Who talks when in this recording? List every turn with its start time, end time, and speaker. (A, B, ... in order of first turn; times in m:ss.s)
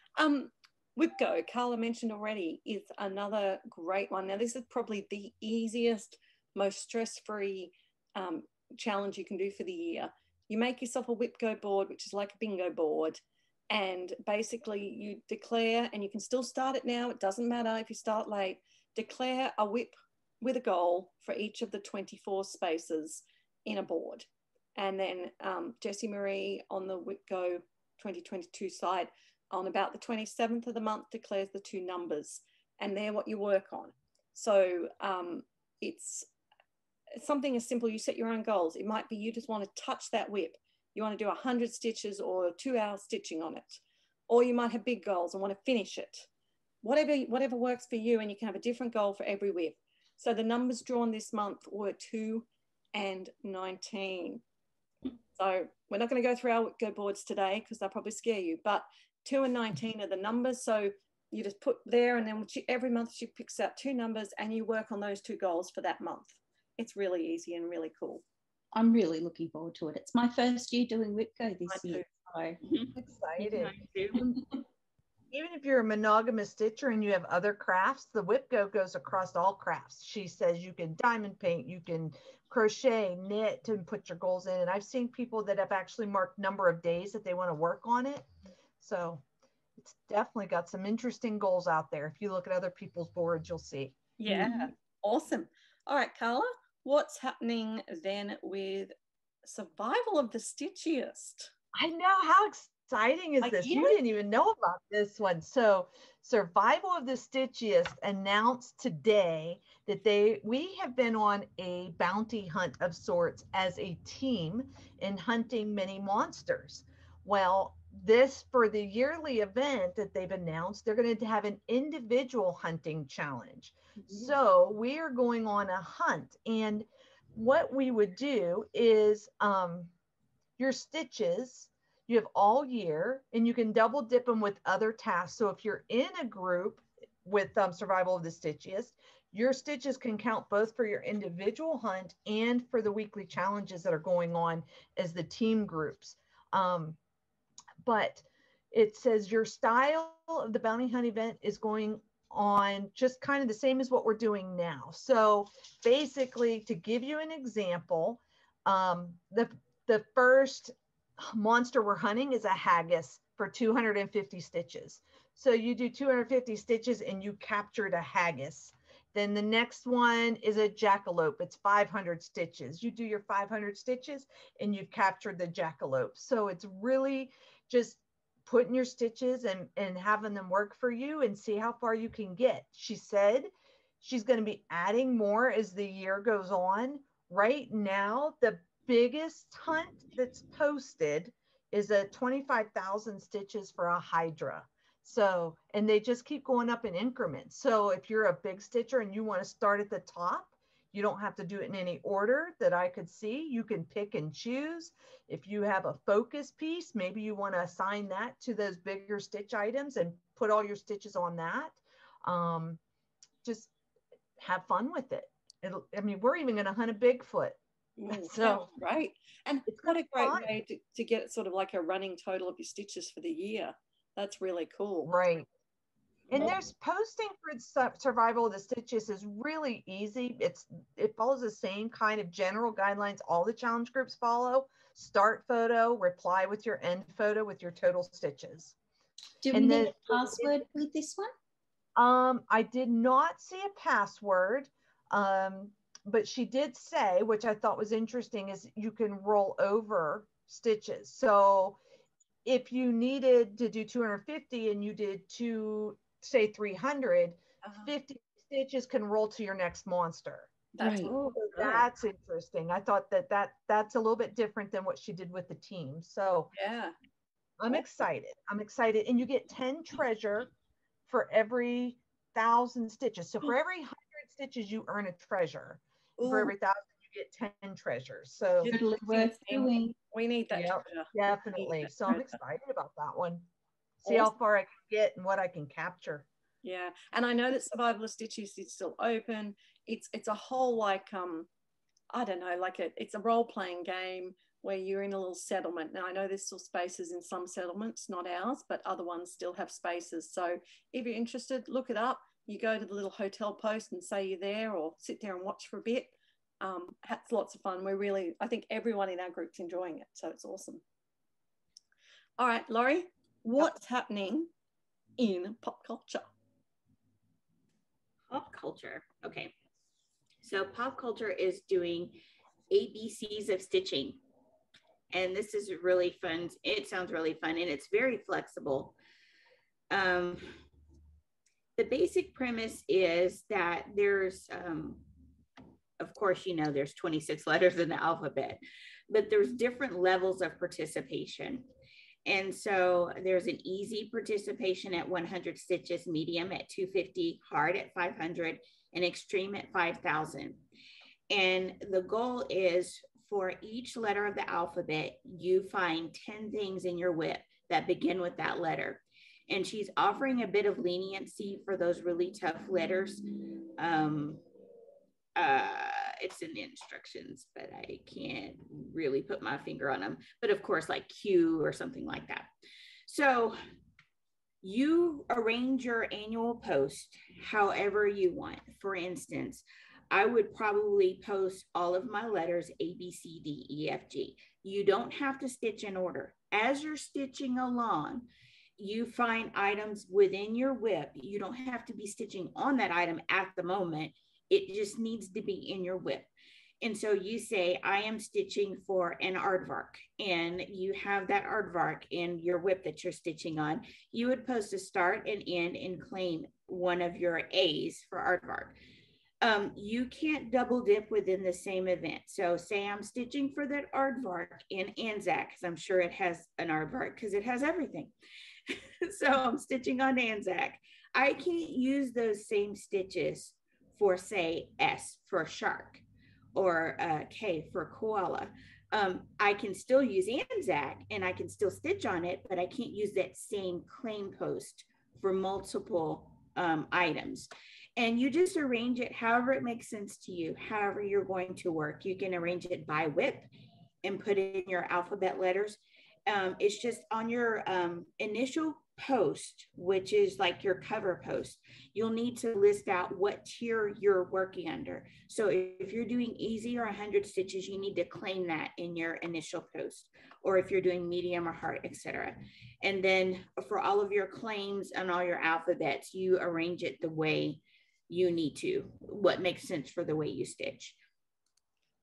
0:00.2-0:36.3 A
0:37.1-0:46.3 A
0:46.8-0:54.4 A
0:55.4-1:08.2 A
1:08.7-1:12.6 B
1:11.7-1:12.0 A
1:12.6-1:14.2 C
1:13.0-1:14.4 D
1:15.3-1:28.2 D
1:28.8-1:29.2 D
1:29.8-1:34.0 D
1:34.2-1:38.9 A
1:34.3-1:34.7 B
1:39.4-1:41.5 A
1:41.7-2:09.9 D
1:43.4-1:44.0 A
2:10.6-2:27.0 D
2:27.8-3:03.5 D
3:04.0-3:32.8 D
3:33.4-3:33.7 D
3:34.4-3:38.7 D
3:38.0-3:45.1 A
3:39.7-3:40.5 D
3:45.1-3:45.5 D
3:46.3-3:46.6 A
3:46.3-3:58.8 D
3:59.4-4:01.3 B
3:59.5-4:00.6 D
4:02.0-4:11.8 D
4:12.4-4:20.5 D
4:17.6-4:17.9 A
4:20.8-4:21.8 A
4:20.8-4:21.1 B
4:21.4-4:26.5 D
4:26.5-4:26.9 A
4:27.6-4:30.5 D
4:31.1-4:38.8 D
4:36.2-4:36.5 A
4:38.6-4:42.3 A
4:38.6-4:40.0 B
4:40.5-4:43.4 D
4:44.0-4:46.2 D
4:44.0-4:44.3 A
4:46.6-4:51.5 A
4:52.1-5:10.8 A
5:12.4-5:14.5 A
5:15.2-5:16.2 A
5:18.3-5:19.5 C
5:20.4-5:22.2 C
5:22.7-5:24.2 C
5:25.1-5:29.0 C
5:29.9-5:30.5 C
5:31.8-5:35.0 C
5:36.0-5:41.7 C
5:42.2-5:50.6 C
5:51.3-6:03.2 C
6:03.8-6:04.4 C
6:05.4-6:12.5 C
6:13.1-6:13.6 C
6:14.6-6:36.3 C
6:36.8-6:48.8 C
6:49.4-6:58.1 C
6:58.7-7:06.0 C
7:06.6-7:23.5 C
7:24.0-7:51.0 C